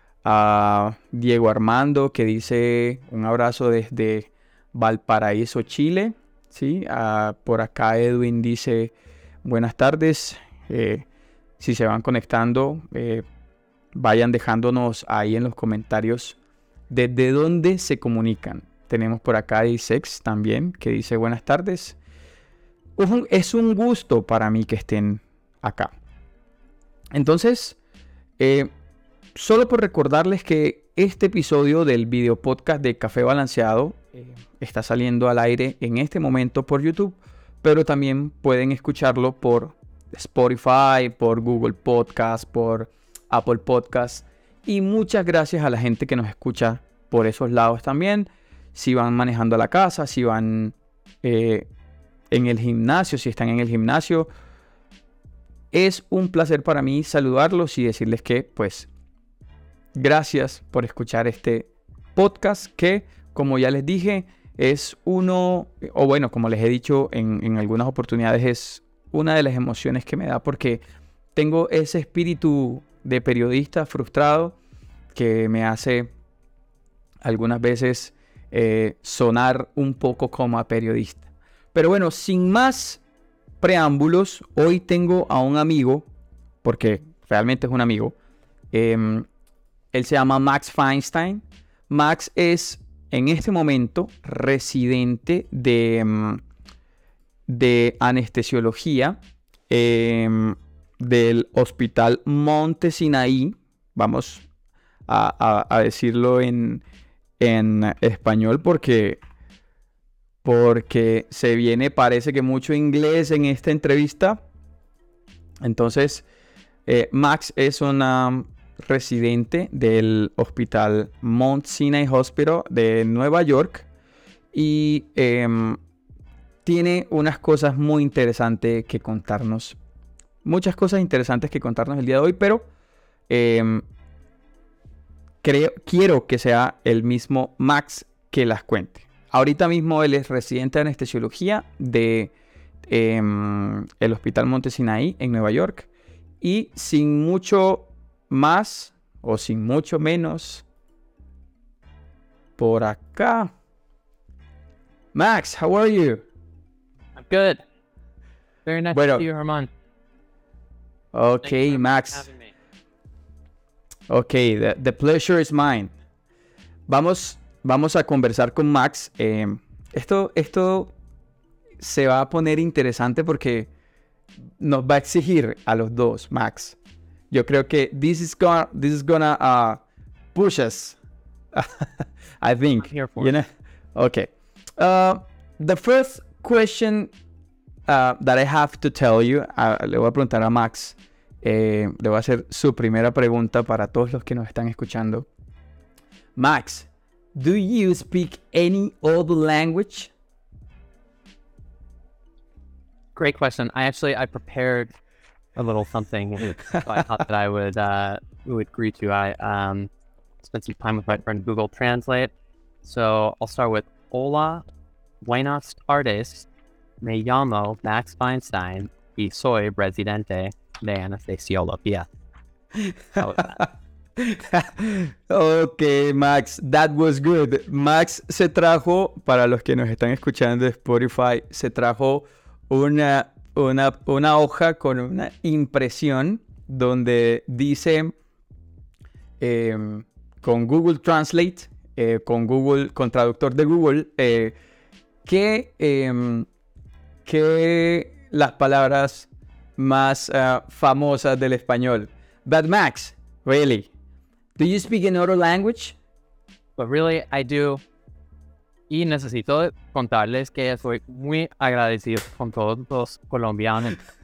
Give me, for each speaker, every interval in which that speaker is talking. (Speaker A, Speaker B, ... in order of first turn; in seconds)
Speaker A: 0.2-11.1, 11.6-13.2, 13.9-16.4, 16.9-22.0, 23.0-25.9, 27.1-27.8, 28.4-28.7, 29.3-51.7, 52.3-54.3, 55.7-58.9, 59.9-70.8, 71.3-74.5, 75.1-76.1, 77.2-83.0, 83.6-86.1, 86.6-88.1, 88.7-89.3, 89.9-96.4, 97.5-99.2, 99.7-104.4, 105.1-106.8, 107.4-109.2, 110.4-114.4, 115.6-116.2, 116.8-123.9, 124.5-125.8, 126.6-129.8, 130.4-132.7, 133.3-133.8, 135.4-142.3, 142.9-145.9, 146.4-150.6, 152.6-153.5, 155.1-156.2, 158.9-159.2, 161.1-162.3, 164.1-165.9, 166.9-170.9, 171.8-173.7, 174.6-176.8, 177.3-179.8, 180.3-181.0, 181.5-181.9, 182.4-187.1, 187.9-195.3, 196.3-200.1, 222.8-238.1, 239.4-244.5, 245.2-246.5, 247.2-253.9, 254.6-255.9
Speaker B: 157.2-157.6, 158.6-159.7, 161.4-162.5, 182.8-183.3, 203.2-204.9, 205.5-209.9, 210.4-212.3, 212.8-214.6, 215.2-216.5, 217.0-222.1, 223.2-223.6, 256.8-257.8, 258.9-264.0